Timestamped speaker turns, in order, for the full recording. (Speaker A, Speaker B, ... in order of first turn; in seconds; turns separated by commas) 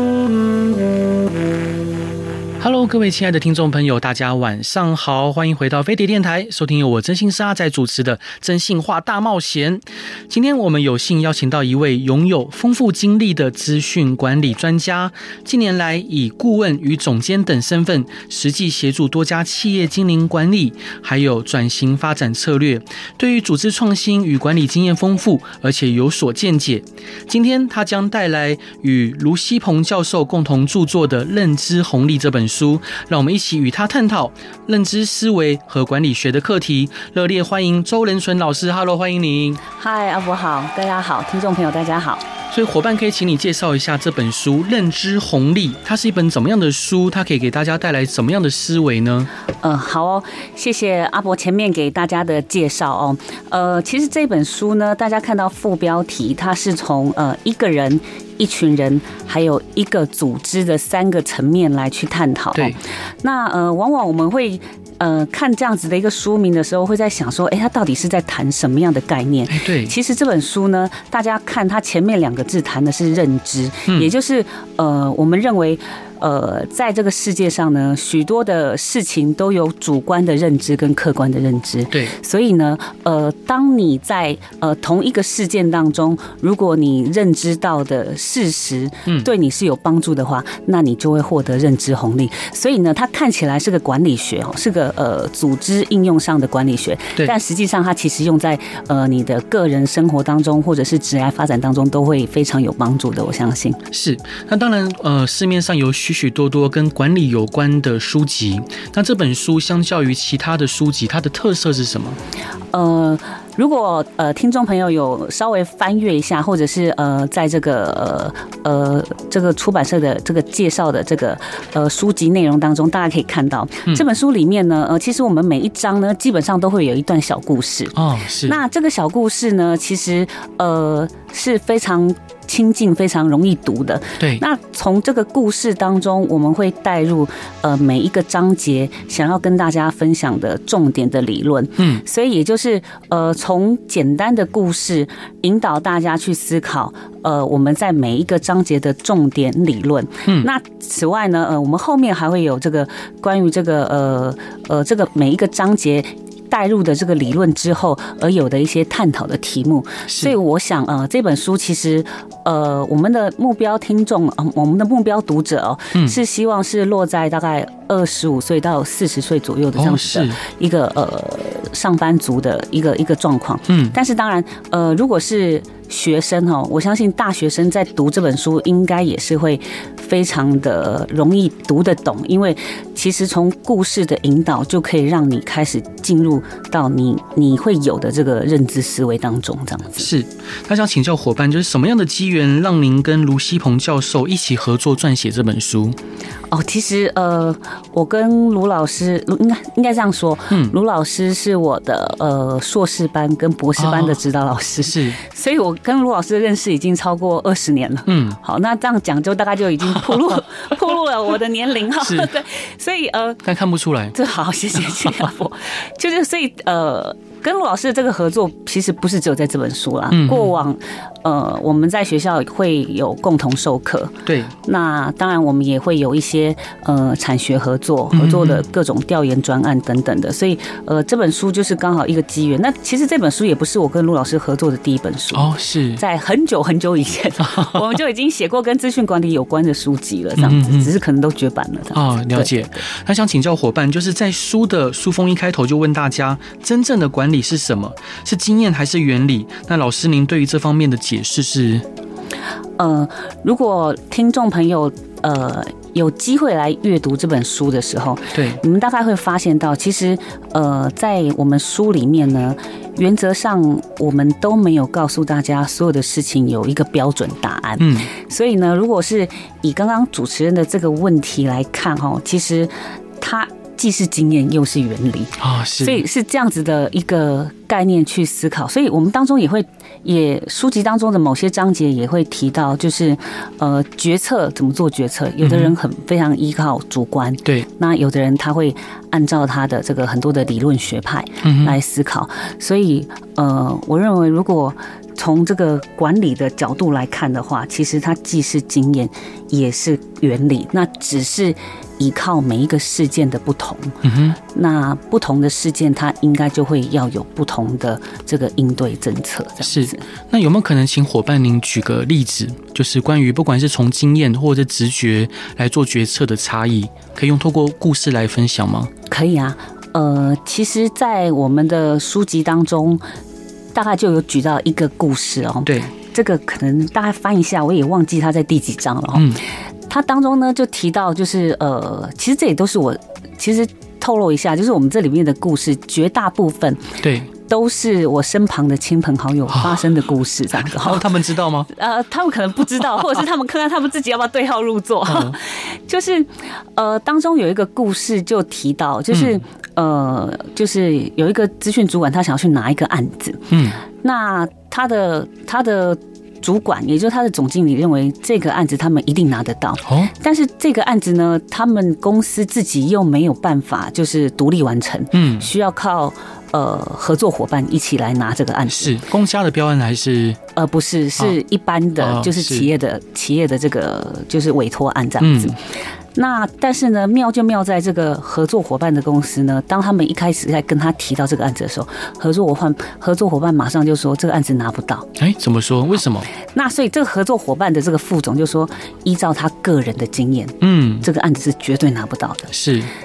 Speaker A: 2.6-39.6, Speaker B: 39.7-42.3, Speaker A: 42.5-49.3, Speaker B: 49.6-103.8, Speaker A: 69.5-70.0, Speaker A: 103.9-112.2, Speaker B: 112.7-190.1, Speaker A: 128.0-128.6, Speaker A: 141.8-142.0, Speaker A: 160.1-160.3, Speaker A: 169.8-170.4, Speaker A: 173.7-174.0, Speaker A: 190.0-196.0, Speaker B: 196.5-213.4, Speaker A: 203.8-204.2, Speaker A: 204.8-205.2, Speaker A: 208.1-208.4, Speaker A: 212.0-212.3, Speaker A: 213.4-214.2, Speaker B: 214.1-242.8, Speaker A: 220.1-220.5, Speaker A: 224.3-224.5, Speaker A: 228.1-228.7, Speaker A: 235.3-236.0, Speaker A: 237.4-237.8, Speaker A: 240.4-240.9, Speaker A: 241.9-251.8, Speaker B: 252.8-310.0, Speaker A: 258.3-258.6, Speaker A: 267.8-268.1, Speaker A: 275.4-276.0, Speaker A: 285.4-285.7, Speaker A: 291.4-291.8, Speaker A: 304.0-304.4, Speaker A: 309.6-318.9, Speaker B: 319.1-323.0, Speaker B: 323.8-341.1, Speaker A: 325.7-325.9, Speaker A: 329.1-329.4, Speaker A: 337.0-337.3, Speaker A: 339.5-339.8, Speaker A: 340.6-341.7, Speaker B: 341.7-369.0, Speaker A: 345.1-345.4, Speaker A: 353.5-353.8, Speaker A: 359.9-360.1, Speaker A: 365.1-365.5, Speaker A: 368.7-370.4, Speaker B: 370.6-375.6, Speaker A: 372.0-372.7, Speaker A: 375.2-375.6, Speaker B: 376.1-385.1, Speaker A: 385.2-386.3, Speaker B: 386.5-392.5, Speaker A: 390.6-391.1, Speaker A: 392.5-392.9